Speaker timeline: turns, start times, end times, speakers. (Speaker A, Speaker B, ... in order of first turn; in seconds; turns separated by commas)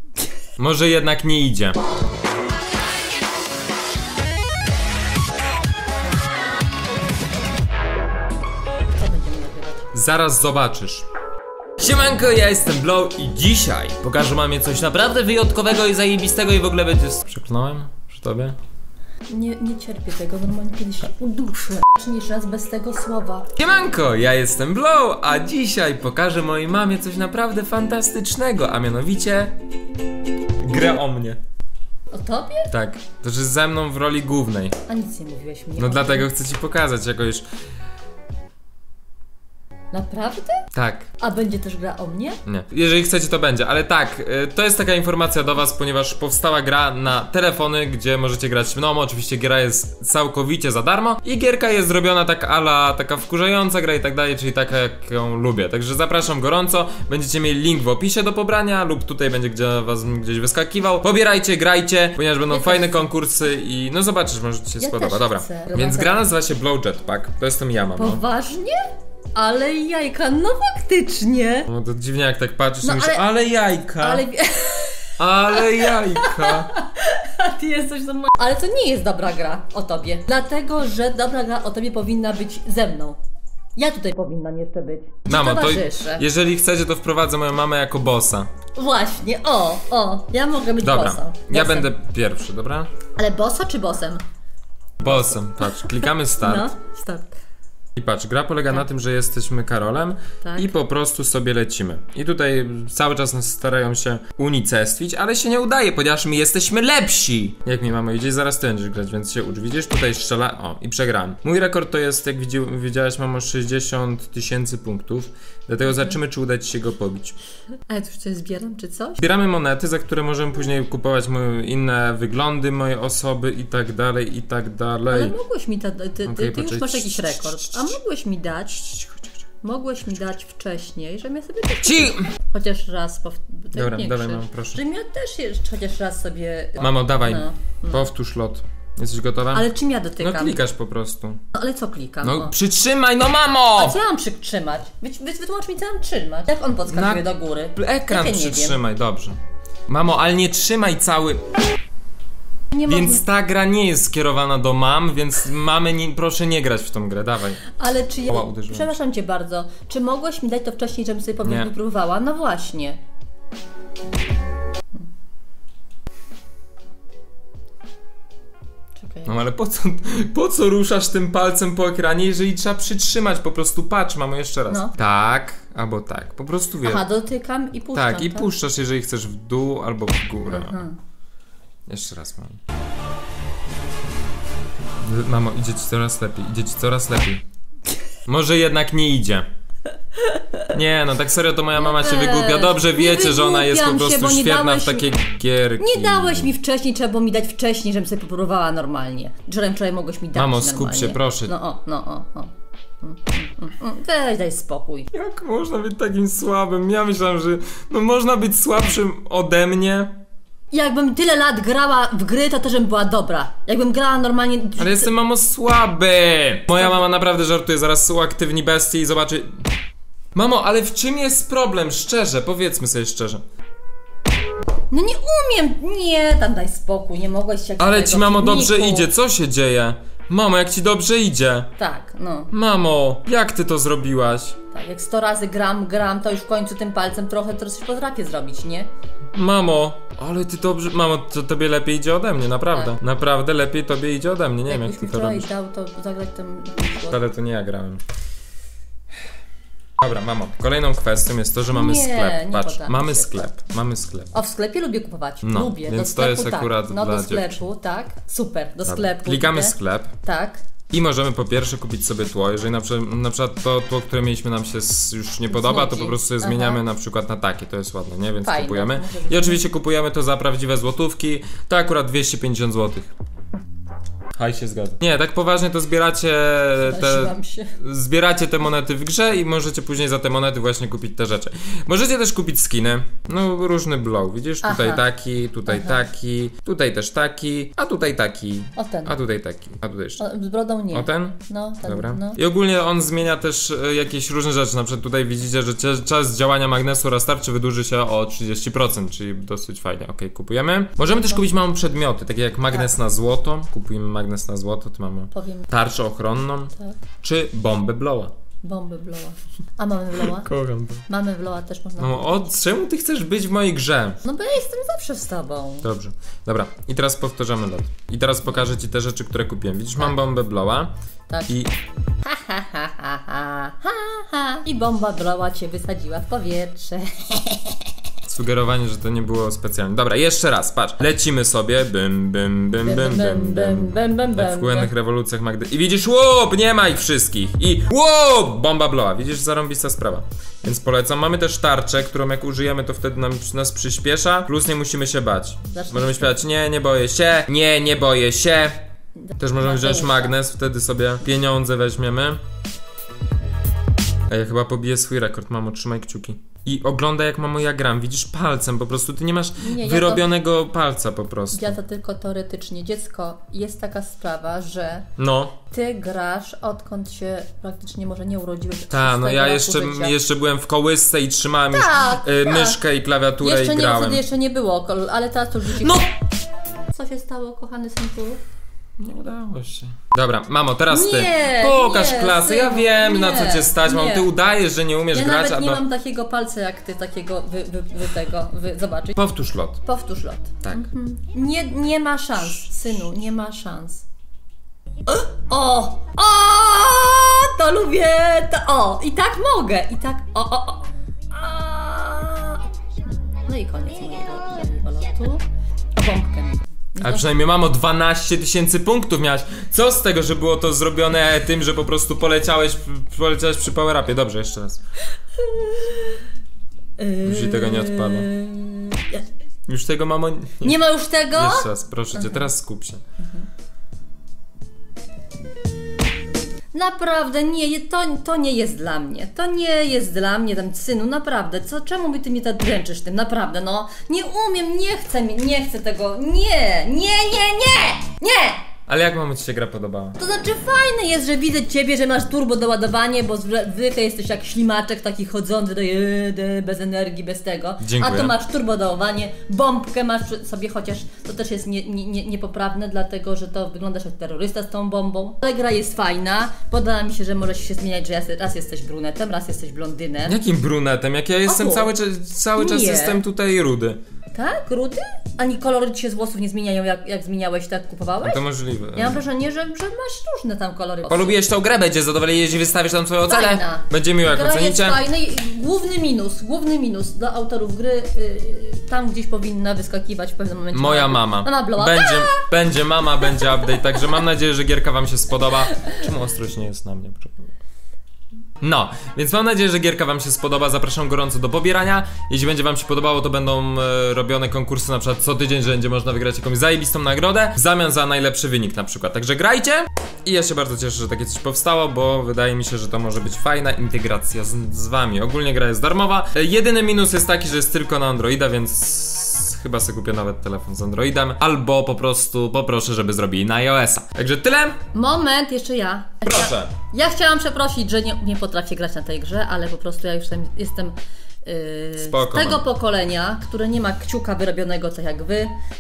Speaker A: 0.6-1.8, Speaker B: 8.9-9.9, Speaker A: 9.9-11.1, Speaker A: 11.8-18.6, Speaker B: 19.3-23.5, Speaker A: 23.6-29.6, Speaker A: 30.6-31.4, Speaker B: 32.1-32.7, Speaker A: 32.7-34.8, Speaker B: 34.9-36.3, Speaker A: 35.8-37.5, Speaker B: 39.9-40.6, Speaker A: 40.7-41.1, Speaker B: 41.2-42.4, Speaker A: 42.5-68.2, Speaker B: 62.5-63.0, Speaker B: 64.8-66.2, Speaker B: 68.0-68.8, Speaker B: 69.3-71.7, Speaker A: 71.7-74.2, Speaker B: 72.8-73.3, Speaker B: 74.0-83.2, Speaker A: 75.2-76.7, Speaker B: 83.8-86.2, Speaker A: 85.3-88.5, Speaker B: 88.8-91.9, Speaker A: 90.8-92.9, Speaker B: 93.2-94.2, Speaker A: 95.0-96.7, Speaker B: 95.0-97.3, Speaker A: 98.0-117.4, Speaker B: 100.4-100.7, Speaker B: 115.9-116.2, Speaker B: 117.9-119.2, Speaker A: 119.2-125.3, Speaker B: 125.1-128.9, Speaker A: 126.2-127.9, Speaker A: 128.9-129.3, Speaker B: 129.6-138.1, Speaker A: 131.8-132.3, Speaker A: 133.7-134.8, Speaker A: 136.8-139.7, Speaker B: 139.5-140.6, Speaker A: 140.2-141.4, Speaker B: 141.5-142.5, Speaker A: 142.2-144.0, Speaker B: 143.8-148.8, Speaker A: 146.9-147.2, Speaker A: 147.8-151.4, Speaker B: 152.7-153.2, Speaker A: 152.9-157.7, Speaker B: 157.8-163.0, Speaker A: 158.3-158.9, Speaker A: 161.4-161.7, Speaker B: 169.0-169.4, Speaker A: 169.3-177.1, Speaker B: 174.7-174.9, Speaker B: 176.8-178.5, Speaker A: 177.9-180.9, Speaker B: 180.5-180.9, Speaker A: 181.9-182.6, Speaker A: 185.0-187.4, Speaker A: 188.3-189.5, Speaker B: 190.2-190.4, Speaker A: 190.7-196.5, Speaker B: 191.8-195.1, Speaker B: 195.8-205.1, Speaker A: 200.3-201.5, Speaker A: 205.1-210.2, Speaker B: 210.7-215.1, Speaker A: 214.8-219.7, Speaker A: 220.3-223.4, Speaker B: 224.9-229.1, Speaker A: 227.8-231.7, Speaker B: 231.8-232.5, Speaker A: 232.5-234.6, Speaker B: 234.7-238.9, Speaker A: 239.3-245.5, Speaker B: 242.7-243.0, Speaker B: 244.7-247.2, Speaker A: 247.1-248.0, Speaker A: 250.0-254.3, Speaker B: 251.7-253.5, Speaker B: 254.3-260.6, Speaker A: 255.4-257.6, Speaker A: 258.9-260.1, Speaker A: 260.9-273.1, Speaker B: 265.5-266.8, Speaker B: 268.4-269.6, Speaker A: 274.4-290.2, Speaker B: 276.8-277.8, Speaker B: 284.6-285.0, Speaker B: 285.7-286.0, Speaker B: 288.8-289.2, Speaker B: 290.2-292.4, Speaker A: 290.9-308.3, Speaker B: 301.0-301.6, Speaker B: 305.3-305.7, Speaker B: 308.6-310.5, Speaker A: 310.3-311.0, Speaker B: 311.1-312.5, Speaker A: 312.0-314.2, Speaker B: 314.2-315.9, Speaker A: 315.8-320.9, Speaker B: 321.3-321.6, Speaker B: 322.2-327.9, Speaker A: 328.2-348.9, Speaker B: 332.8-334.9, Speaker B: 345.7-346.4, Speaker B: 349.2-350.4, Speaker A: 349.4-352.4, Speaker A: 354.3-361.8, Speaker B: 359.6-360.2, Speaker B: 361.5-365.1, Speaker A: 365.2-365.6, Speaker B: 365.7-370.1, Speaker A: 368.9-374.2, Speaker B: 371.7-372.8, Speaker B: 373.4-376.1, Speaker A: 375.8-376.1, Speaker B: 376.9-378.4, Speaker A: 379.0-385.8, Speaker B: 380.9-384.3, Speaker B: 385.1-389.2, Speaker A: 389.2-389.8, Speaker B: 389.8-394.1, Speaker B: 395.1-402.6, Speaker B: 403.3-405.4, Speaker B: 406.0-407.3, Speaker A: 407.0-414.8, Speaker B: 415.4-416.2, Speaker B: 417.0-419.2, Speaker A: 417.2-418.3, Speaker A: 419.7-420.8, Speaker B: 420.6-422.5, Speaker A: 421.3-423.0, Speaker B: 423.2-423.5, Speaker B: 426.7-438.6, Speaker A: 438.9-440.2, Speaker B: 440.2-460.4, Speaker A: 447.8-448.3, Speaker A: 460.3-464.0, Speaker B: 461.4-461.9, Speaker B: 462.6-463.2, Speaker B: 464.4-468.4, Speaker A: 468.2-469.2, Speaker B: 468.9-471.4, Speaker A: 471.1-475.0, Speaker B: 473.3-482.4, Speaker A: 480.7-487.5, Speaker B: 483.2-484.0, Speaker A: 488.6-514.8, Speaker B: 514.9-525.5, Speaker A: 516.3-516.8, Speaker A: 522.0-522.7